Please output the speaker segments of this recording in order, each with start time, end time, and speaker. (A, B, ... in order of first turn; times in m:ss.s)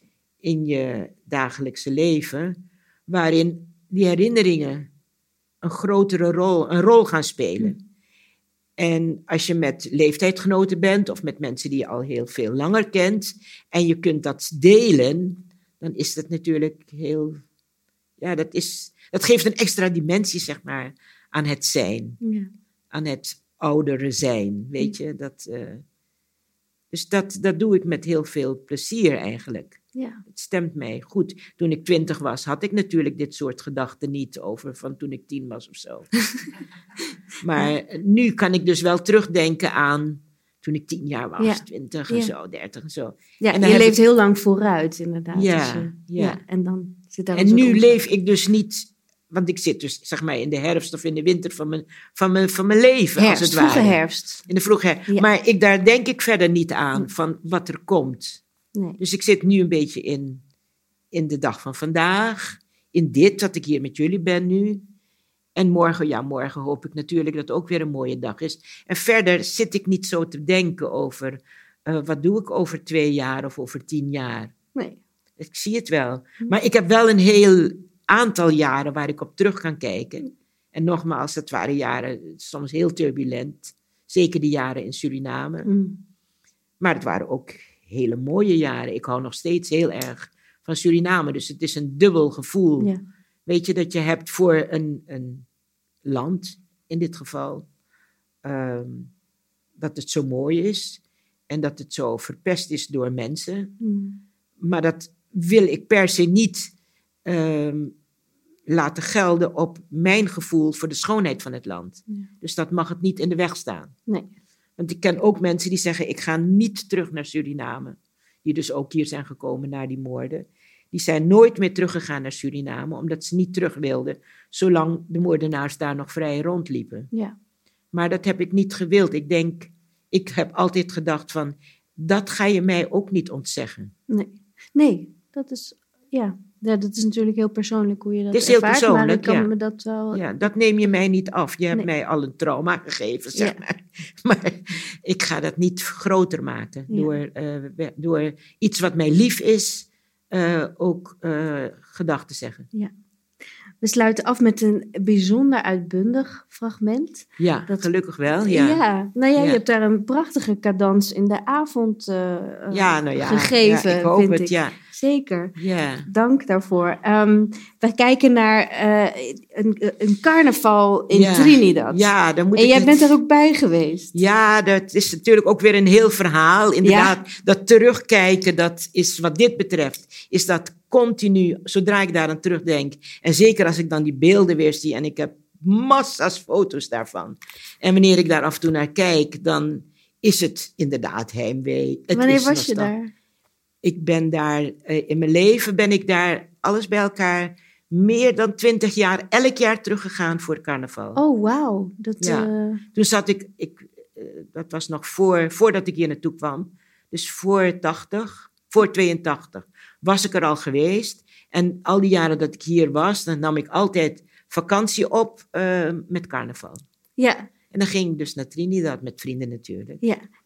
0:00.4-0:04.9 A
0:05.6-0:07.8 A
0:08.8-0:17.4 A
0:18.2-0:22.2 A
0:22.2-0:22.5 B
0:22.9-0:25.8 A
0:26.9-0:36.1 A
0:30.0-0:30.2 B
0:37.4-0:44.0 A
0:41.4-0:42.3 B
0:43.4-0:48.0 B
0:45.3-0:46.4 A
0:47.3-0:58.4 A
0:53.2-0:54.4 B
0:59.0-1:00.4 A
1:01.1-1:04.8 A
1:05.6-1:14.5 A
1:15.4-1:25.7 A
1:25.7-1:26.0 B
1:26.8-1:32.9 A
1:33.5-1:35.5 A
1:36.0-1:37.7 A
1:38.4-1:39.1 A
1:39.8-1:43.7 A
1:43.8-1:44.2 B
1:44.6-1:46.7 A
1:47.3-1:48.0 A
1:48.7-1:54.0 A
1:54.8-2:07.1 A
2:07.9-2:13.9 A
2:14.1-2:20.5 B
2:18.3-2:19.5 A
2:20.1-2:32.7 A
2:33.8-2:37.9 B
2:37.4-2:38.8 A
2:38.5-2:45.6 B
2:42.7-2:44.8 A
2:45.6-2:46.1 A
2:46.1-2:54.2 B
2:51.1-2:53.1 A
2:54.1-3:12.9 A
2:56.8-2:57.2 B
3:12.1-3:13.1 B
3:13.8-3:21.2 A
3:21.2-3:22.8 B
3:22.2-3:36.8 A
3:37.2-3:37.5 B
3:37.7-3:40.0 A